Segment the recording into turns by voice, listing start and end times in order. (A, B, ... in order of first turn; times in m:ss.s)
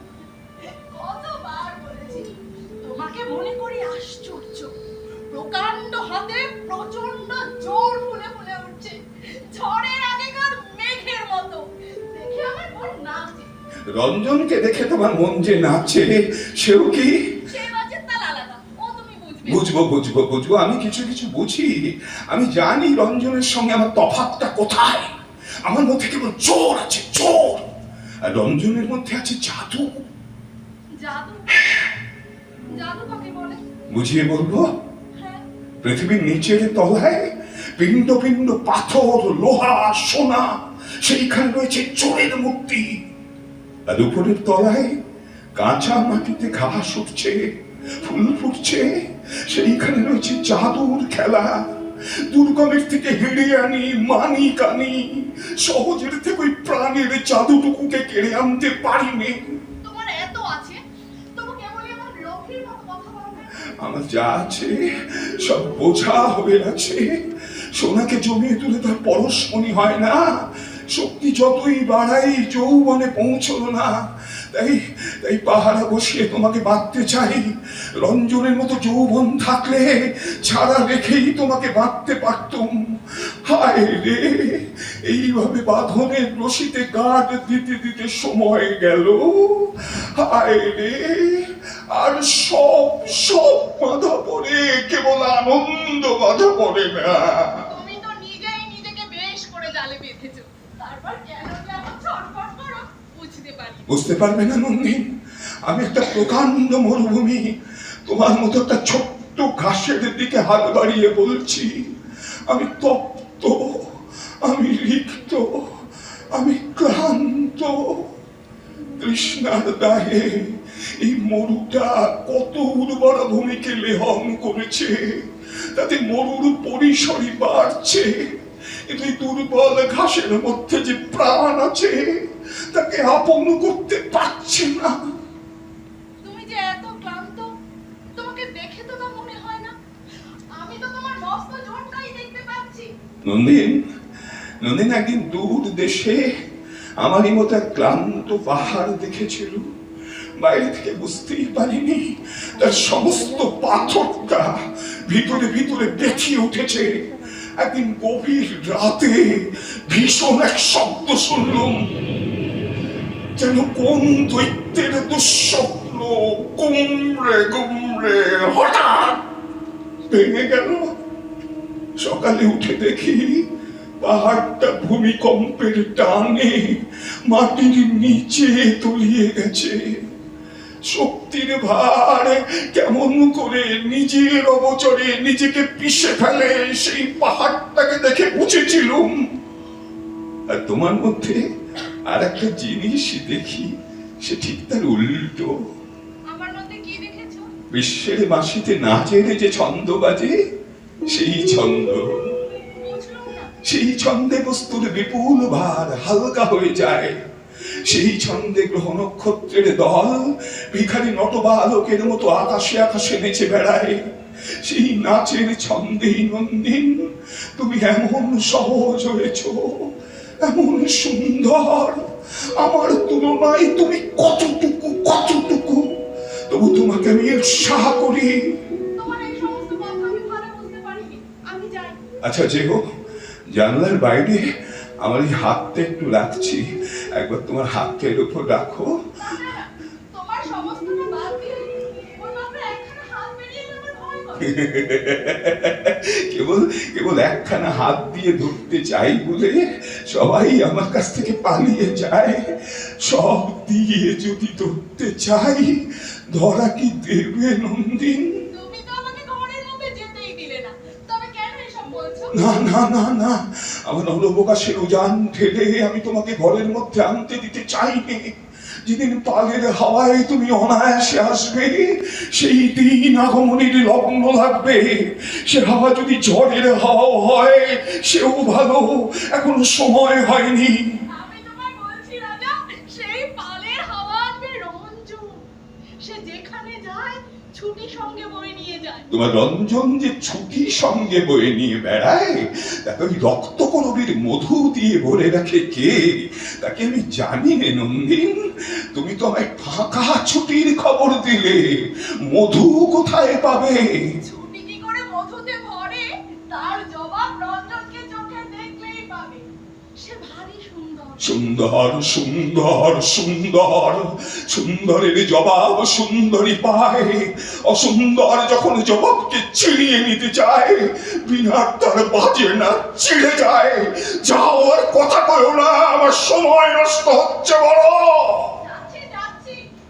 0:00.6-0:04.7 A
0:05.3-0:13.5 A
0:13.9-0:17.3 B
0:17.5-0:19.7 A
0:19.4-0:25.1 B
0:25.6-0:27.7 B
0:28.2-0:30.0 B
0:31.0-0:31.7 A
0:32.7-0:33.6 A
0:33.9-0:34.7 B
0:35.2-0:35.4 A
0:35.8-0:43.0 B
0:43.9-0:45.0 B
0:45.6-0:51.7 B
0:52.3-0:59.6 B
0:59.8-1:00.8 A
1:01.4-1:03.6 A
1:03.8-1:07.1 B
1:07.7-1:14.0 B
1:14.5-1:37.7 B
1:37.7-1:43.9 A
1:43.9-1:45.1 B
1:45.6-1:58.1 B
1:59.0-2:15.1 B
2:16.2-2:17.5 A
2:18.2-2:19.7 A
2:20.6-2:22.9 A
2:23.2-2:23.8 B
2:24.6-2:26.3 B
2:27.0-2:29.7 B
2:30.4-2:41.9 B
2:43.4-2:49.2 B
2:50.1-2:50.9 B
2:52.0-2:53.5 B
2:54.0-3:00.1 B
3:00.8-3:09.4 B
3:10.5-3:11.4 B
3:12.1-3:15.6 B
3:16.3-3:17.5 A
3:17.7-3:20.4 B
3:21.1-3:22.4 B
3:22.8-3:23.5 A
3:23.6-3:27.2 B
3:27.7-3:45.9 B
3:46.5-3:48.6 B
3:48.9-3:52.0 A
3:52.2-3:52.8 B
3:53.5-3:54.5 B
3:55.0-3:59.0 B
3:59.2-4:04.7 A
4:04.4-4:18.4 B
4:18.5-4:22.4 A
4:22.3-4:40.9 B
4:41.1-4:45.4 A
4:46.0-4:49.1 A
4:49.1-5:04.0 B
5:04.2-5:09.4 A
5:10.0-5:11.4 A
5:11.2-5:28.6 B
5:28.6-5:29.6 A